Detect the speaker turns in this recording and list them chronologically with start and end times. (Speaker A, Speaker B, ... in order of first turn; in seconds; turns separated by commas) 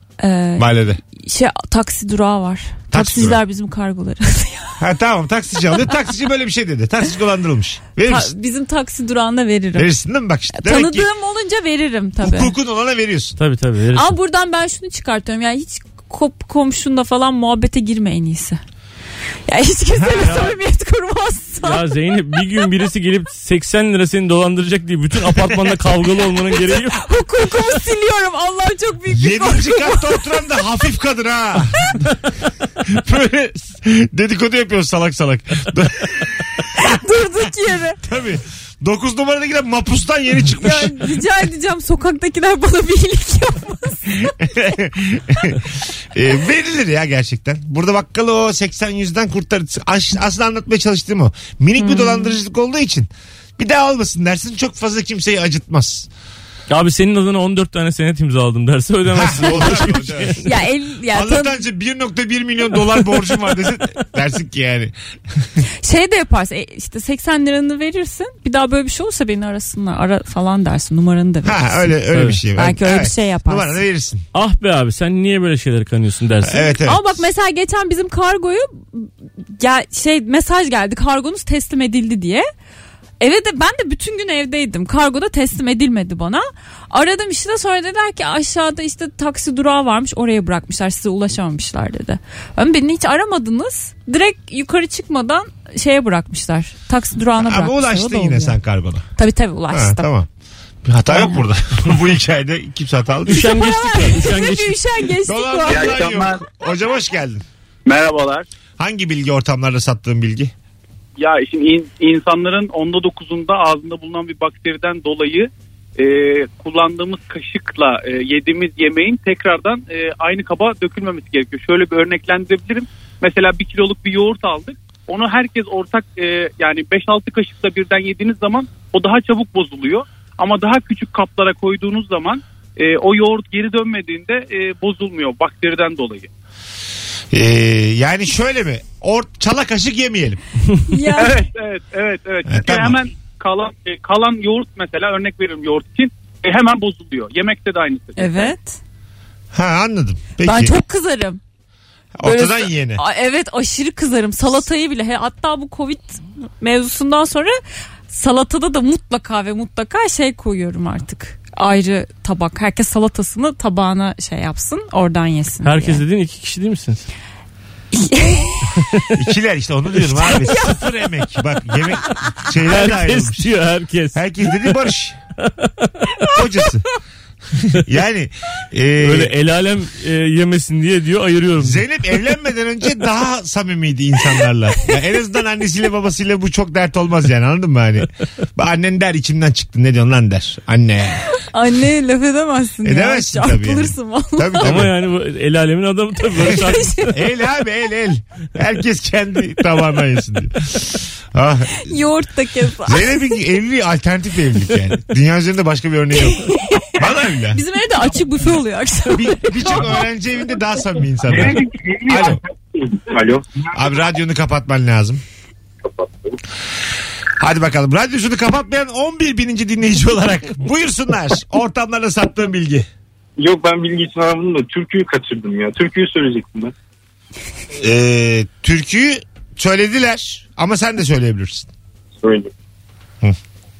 Speaker A: 0.2-4.8, Speaker B: 0.6-1.0, Speaker B: 2.9-3.4, Speaker B: 4.8-8.3, Speaker A: 8.0-9.9, Speaker B: 9.8-11.1, Speaker A: 10.5-12.5, Speaker B: 12.2-13.4, Speaker C: 13.4-14.1, Speaker A: 13.9-18.6, Speaker A: 19.5-21.9, Speaker B: 20.0-20.3, Speaker C: 20.2-20.5, Speaker C: 21.6-27.0, Speaker A: 26.7-30.4, Speaker B: 29.1-32.0, Speaker B: 32.8-36.4, Speaker A: 36.8-38.0, Speaker B: 38.0-41.1, Speaker A: 40.6-44.3, Speaker B: 44.2-56.1, Speaker A: 51.8-52.4, Speaker C: 56.7-60.4, Speaker B: 59.1-60.5, Speaker A: 60.4-61.6, Speaker B: 61.1-65.5, Speaker A: 65.8-72.0, Speaker B: 71.4-74.2, Speaker C: 72.1-72.4, Speaker A: 72.5-73.8, Speaker C: 74.3-76.7, Speaker B: 76.4-77.2, Speaker A: 76.8-82.5, Speaker A: 83.2-98.5, Speaker B: 97.4-99.1, Speaker A: 99.2-100.1, Speaker B: 99.7-100.3, Speaker B: 100.8-103.5, Speaker A: 101.1-101.4, Speaker C: 103.3-104.8, Speaker A: 103.3-106.1, Speaker B: 105.2-107.4, Speaker D: 107.9-108.4, Speaker B: 108.8-110.5, Speaker D: 111.2-136.3, Speaker B: 137.3-140.4, Speaker A: 140.9-141.4, Speaker D: 141.2-148.5, Speaker B: 142.5-143.0, Speaker A: 148.2-148.8, Speaker B: 149.5-150.8, Speaker A: 150.4-151.4, Speaker B: 152.2-153.0, Speaker A: 152.2-157.6, Speaker A: 158.1-166.0, Speaker C: 165.6-167.1, Speaker A: 167.9-168.8, Speaker C: 168.8-169.1, Speaker B: 169.1-173.5, Speaker A: 170.3-170.8, Speaker C: 172.7-174.8, Speaker B: 174.1-175.2, Speaker C: 175.4-176.1, Speaker B: 176.3-176.9, Speaker B: 177.7-179.3, Speaker C: 179.0-181.8, Speaker B: 181.6-191.2, Speaker A: 191.3-194.8, Speaker B: 192.8-194.9, Speaker C: 194.6-197.2, Speaker A: 196.4-197.1, Speaker B: 197.1-202.0, Speaker A: 201.7-203.4, Speaker B: 202.8-207.6, Speaker A: 206.2-210.0, Speaker B: 209.1-212.4, Speaker E: 211.3-213.9, Speaker B: 213.7-215.2, Speaker B: 217.4-222.9, Speaker E: 223.4-226.7, Speaker B: 227.8-231.7, Speaker E: 232.2-232.5